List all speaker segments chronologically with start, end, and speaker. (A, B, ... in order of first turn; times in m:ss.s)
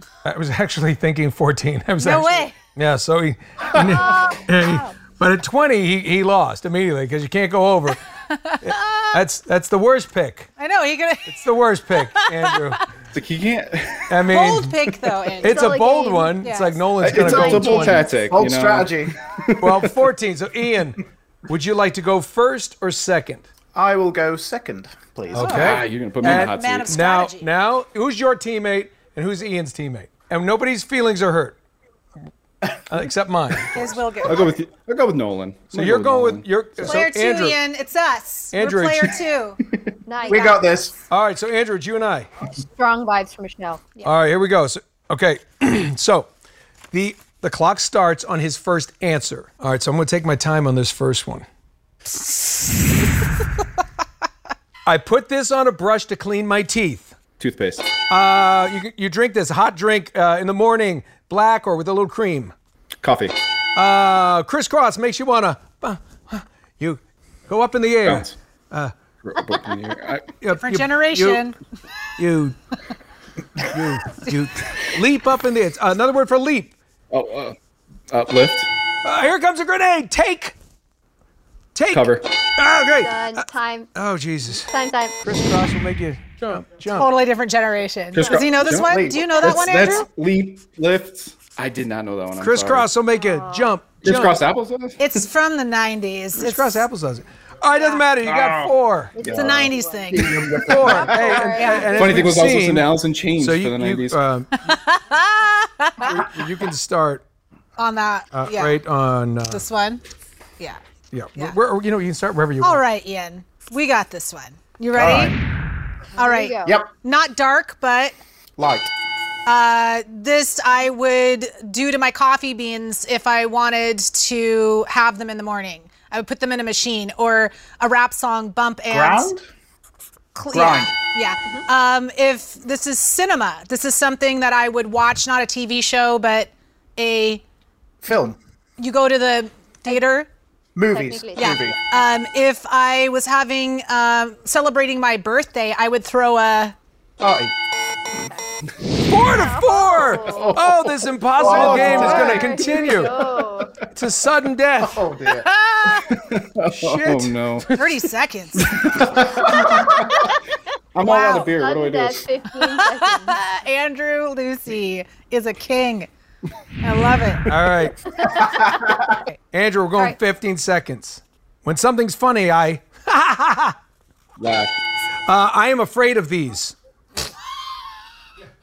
0:00.2-0:08.0 A
0:02.0-0:02.6 B
0:03.8-0:04.8 B
0:08.3-0:09.2 B
0:08.6-0:10.5 A
0:10.6-0:11.5 B
0:11.3-0:12.8 A
0:12.0-0:12.8 B
0:13.1-0:14.1 C
0:14.1-0:14.8 A
0:14.3-0:15.6 B
0:15.4-0:18.1 A
0:15.4-0:16.4 D
0:16.4-0:17.3 B
0:17.0-0:19.7 C
0:17.1-0:19.2 E
0:19.6-0:23.5 A
0:23.8-0:25.9 E
0:25.3-0:31.6 A
0:25.4-0:27.5 B
0:25.5-0:27.0 C
0:32.9-0:33.9 A
0:33.7-0:34.5 B
0:34.2-0:37.0 C
0:35.7-0:37.6 A
0:36.8-0:39.6 B
0:38.5-0:39.1 A
0:40.1-0:40.8 D
0:40.2-0:40.9 E
0:40.3-0:40.6 B
0:41.1-0:42.3 A
0:42.6-0:44.1 D
0:44.0-0:46.3 A
0:46.9-0:51.5 A
0:54.8-0:57.2 A
0:57.4-0:57.9 C
0:58.1-1:02.5 A
1:03.0-1:03.3 C
1:03.8-1:09.0 A
1:08.0-1:08.4 C
1:09.2-1:10.3 C
1:10.4-1:11.5 A
1:10.5-1:11.6 B
1:12.2-1:12.6 A
1:13.6-1:16.8 A
1:17.1-1:17.6 C
1:18.1-1:18.7 C
1:19.0-1:20.6 A
1:21.8-1:27.1 A
1:21.9-1:22.2 C
1:22.9-1:23.9 D
1:24.7-1:25.2 D
1:26.9-1:30.1 B
1:28.1-1:32.9 C
1:28.6-1:29.6 E
1:32.4-1:34.4 A
1:33.2-1:33.7 D
1:34.0-1:35.1 C
1:35.0-1:36.8 B
1:36.4-1:39.2 A
1:38.2-1:39.7 C
1:39.2-1:40.4 D
1:39.3-1:42.2 B
1:40.1-1:41.8 E
1:40.6-1:44.5 A
1:41.9-1:44.2 C
1:44.6-1:46.2 B
1:46.0-1:47.2 A
1:47.8-1:48.8 B
1:48.3-1:49.6 A
1:49.5-1:50.0 B
1:51.1-1:52.8 A
1:52.6-1:55.3 B
1:54.9-1:55.4 E
1:56.2-1:56.8 D
1:56.2-1:58.2 B
1:58.6-1:58.9 E
1:59.5-2:09.3 B
2:08.9-2:09.5 E
2:10.4-2:17.4 B
2:10.5-2:10.9 E
2:18.0-2:18.4 E
2:18.8-2:20.3 B
2:20.8-2:21.8 E
2:20.9-2:21.7 D
2:21.4-2:26.8 B
2:27.2-2:27.6 E
2:29.0-2:33.2 A
2:29.2-2:30.9 D
2:30.4-2:30.8 E
2:31.4-2:33.1 E
2:31.5-2:33.9 D
2:31.5-2:32.0 C
2:33.9-2:35.0 A
2:34.8-2:36.7 E
2:35.3-2:36.1 B
2:36.7-2:37.4 A
2:36.7-2:37.8 C
2:37.7-2:38.8 B
2:38.6-2:39.7 C
2:38.8-2:40.3 E
2:41.0-2:42.2 C
2:41.0-2:41.6 B
2:41.4-2:43.4 D
2:42.5-2:46.1 B
2:46.8-2:47.5 B
2:47.5-2:48.1 A
2:48.4-2:48.9 E
2:49.1-2:49.4 B
2:49.5-2:53.8 A
2:54.4-2:54.8 C
2:55.3-2:56.8 A